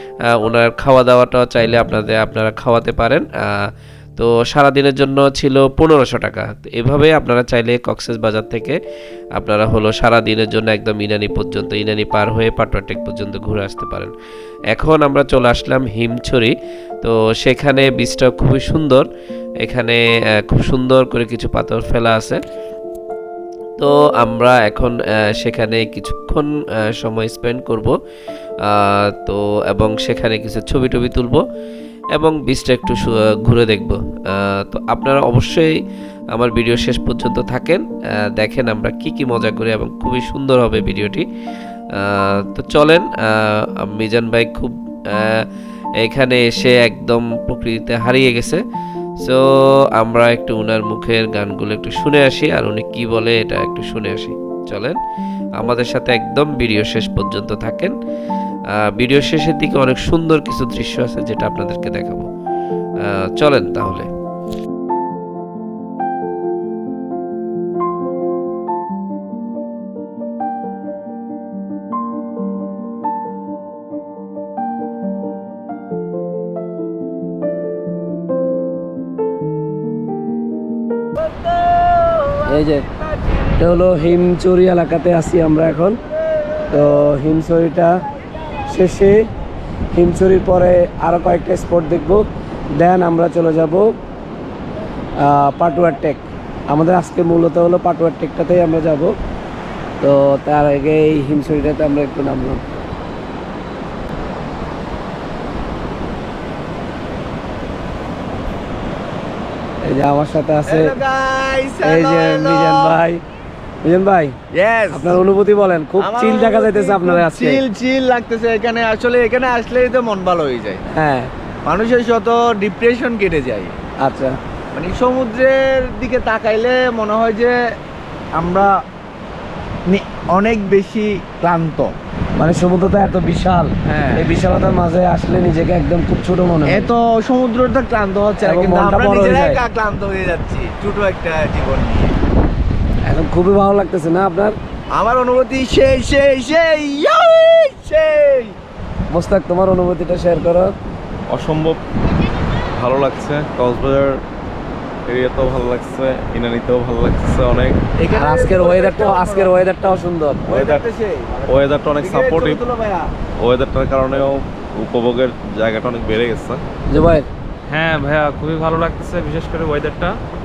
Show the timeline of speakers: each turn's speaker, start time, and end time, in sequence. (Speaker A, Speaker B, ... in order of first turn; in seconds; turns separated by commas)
Speaker A: 0.2-8.8, Speaker A: 9.4-14.1, Speaker A: 14.7-19.1, Speaker A: 19.6-22.4, Speaker A: 23.8-28.0, Speaker A: 28.6-31.4, Speaker A: 32.1-35.8, Speaker A: 36.3-41.3, Speaker A: 41.9-45.5, Speaker A: 46.0-48.6, Speaker A: 49.2-55.0, Speaker A: 55.6-58.0, Speaker A: 58.7-62.3, Speaker A: 63.0-64.1, Speaker B: 82.5-82.9, Speaker B: 83.6-86.0, Speaker B: 86.7-88.0, Speaker B: 88.7-89.2, Speaker B: 89.9-93.9, Speaker B: 95.2-99.1, Speaker B: 100.0-102.6, Speaker B: 109.8-110.9, Speaker C: 110.7-113.0, Speaker B: 111.8-113.2, Speaker B: 113.8-114.4, Speaker C: 114.5-115.2, Speaker B: 114.9-117.6, Speaker C: 116.0-120.8, Speaker B: 120.9-121.3, Speaker C: 121.7-123.8, Speaker B: 124.0-124.4, Speaker C: 124.8-127.6, Speaker C: 128.4-128.7, Speaker C: 129.9-131.9, Speaker B: 132.4-136.9, Speaker D: 133.9-134.2, Speaker C: 136.7-142.1, Speaker B: 138.4-139.6, Speaker B: 143.1-144.6, Speaker C: 144.9-148.6, Speaker B: 149.1-150.7, Speaker E: 151.3-151.8, Speaker E: 152.7-154.2, Speaker E: 155.1-157.8, Speaker C: 158.0-159.5, Speaker B: 158.1-160.4, Speaker C: 160.5-163.1, Speaker E: 160.5-160.8, Speaker E: 161.5-162.6, Speaker E: 163.4-166.6, Speaker B: 166.9-167.3, Speaker D: 167.7-170.2